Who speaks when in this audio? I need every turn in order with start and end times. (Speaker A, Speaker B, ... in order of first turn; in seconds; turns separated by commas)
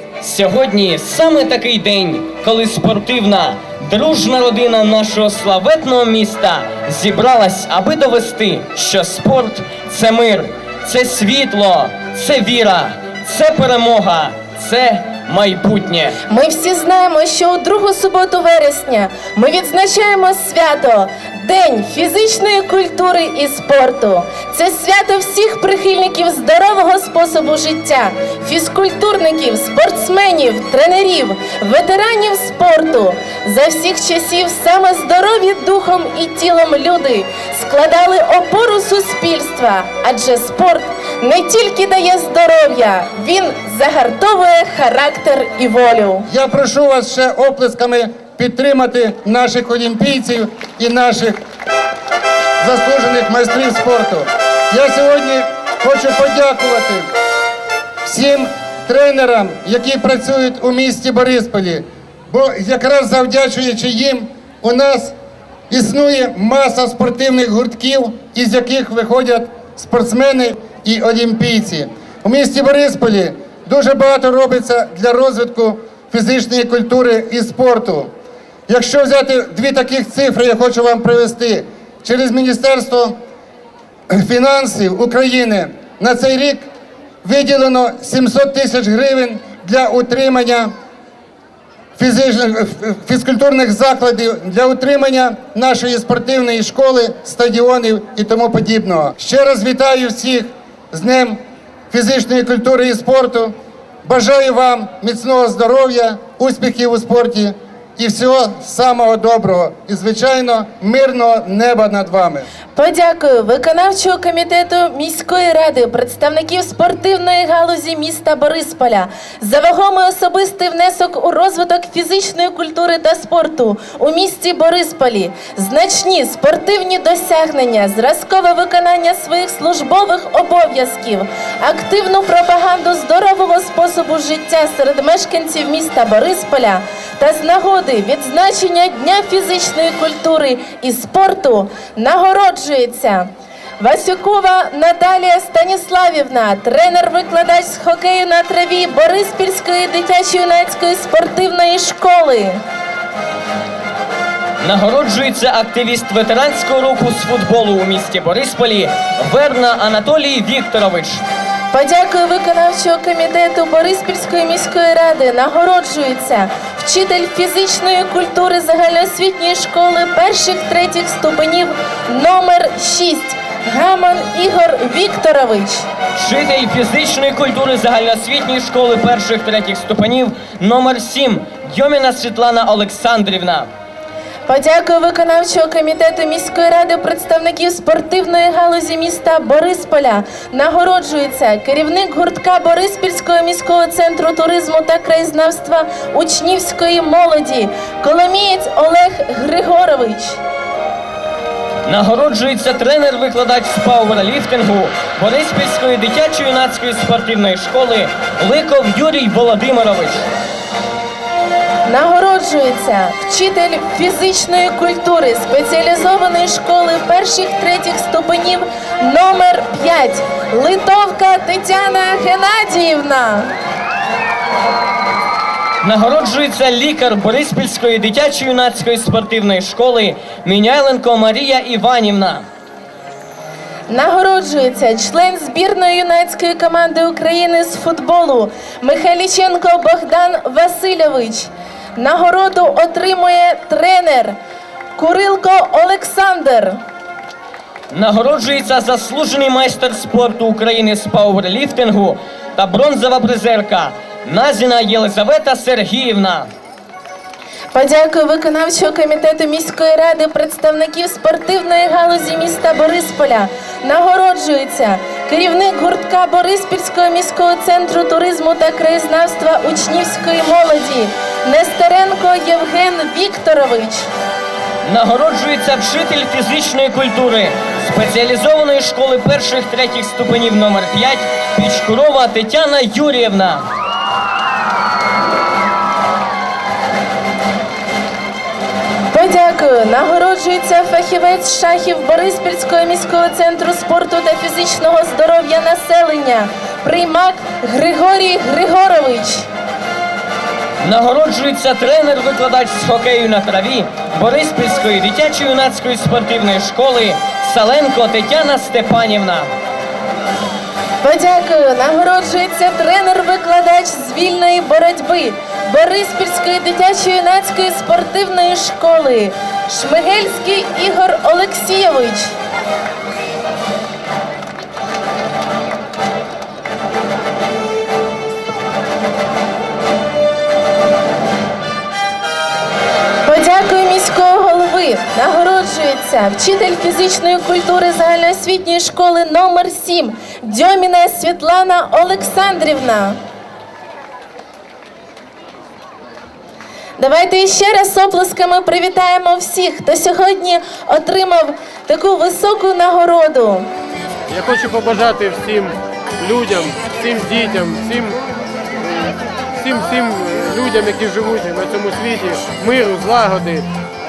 Speaker A: 0.2-16.2, Speaker B: 16.3-46.3, Speaker C: 46.3-51.4, Speaker C: 52.6-57.1, Speaker C: 58.0-65.2, Speaker C: 65.7-78.1, Speaker C: 78.7-83.2, Speaker C: 84.1-86.7, Speaker C: 87.2-90.7, Speaker C: 92.0-101.4, Speaker C: 101.9-112.5, Speaker B: 112.8-152.6, Speaker A: 154.6-161.2, Speaker B: 161.7-175.9, Speaker A: 176.2-183.7, Speaker B: 184.5-200.4, Speaker A: 201.9-210.3, Speaker B: 211.9-223.5, Speaker A: 225.8-232.4, Speaker B: 233.9-244.4, Speaker B: 245.0-246.8, Speaker A: 247.9-256.5, Speaker B: 257.7-274.1, Speaker A: 274.8-283.6, Speaker B: 289.1-299.4, Speaker A: 300.8-309.5, Speaker B: 311.0-322.3, Speaker B: 333.2-343.2, Speaker B: 347.0-353.7, Speaker D: 354.3-358.2, Speaker D: 358.8-363.6